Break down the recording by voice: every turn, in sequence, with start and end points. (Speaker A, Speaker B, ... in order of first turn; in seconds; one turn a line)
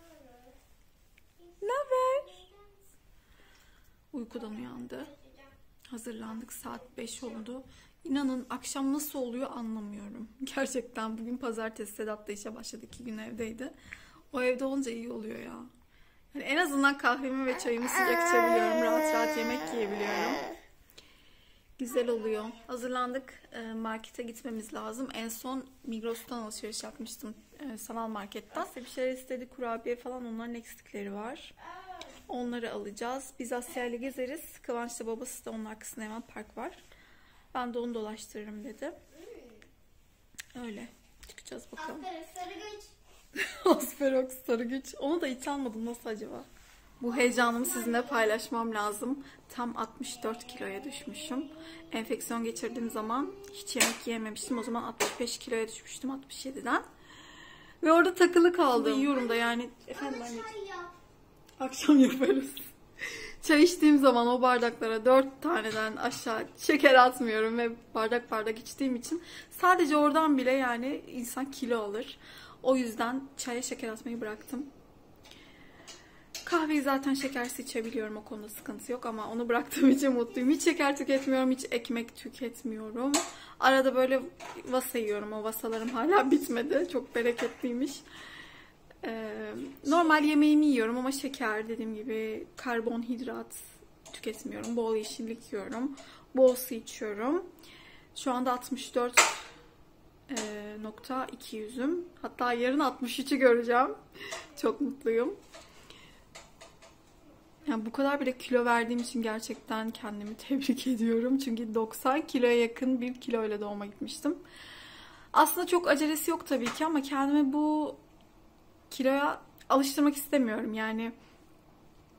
Speaker A: 1.6-2.5
Speaker A: 4.1-5.1
Speaker A: 5.9-13.8
Speaker A: 14.3-15.7
Speaker A: 16.3-20.5
Speaker A: 21.8-31.5
Speaker A: 32.3-36.8
Speaker A: 37.5-39.0
Speaker B: 39.2-39.6
Speaker A: 40.5-42.1
Speaker B: 41.8-42.9
Speaker A: 43.4-46.5
Speaker A: 47.0-56.9
Speaker B: 47.2-48.3
Speaker A: 57.8-60.5
Speaker B: 58.8-60.9
Speaker A: 61.6-74.7
Speaker A: 76.5-88.0
Speaker A: 89.0-97.5
Speaker A: 98.1-99.5
Speaker A: 100.3-105.4
Speaker A: 107.7-114.4
Speaker A: 115.3-118.0
Speaker A: 118.9-121.1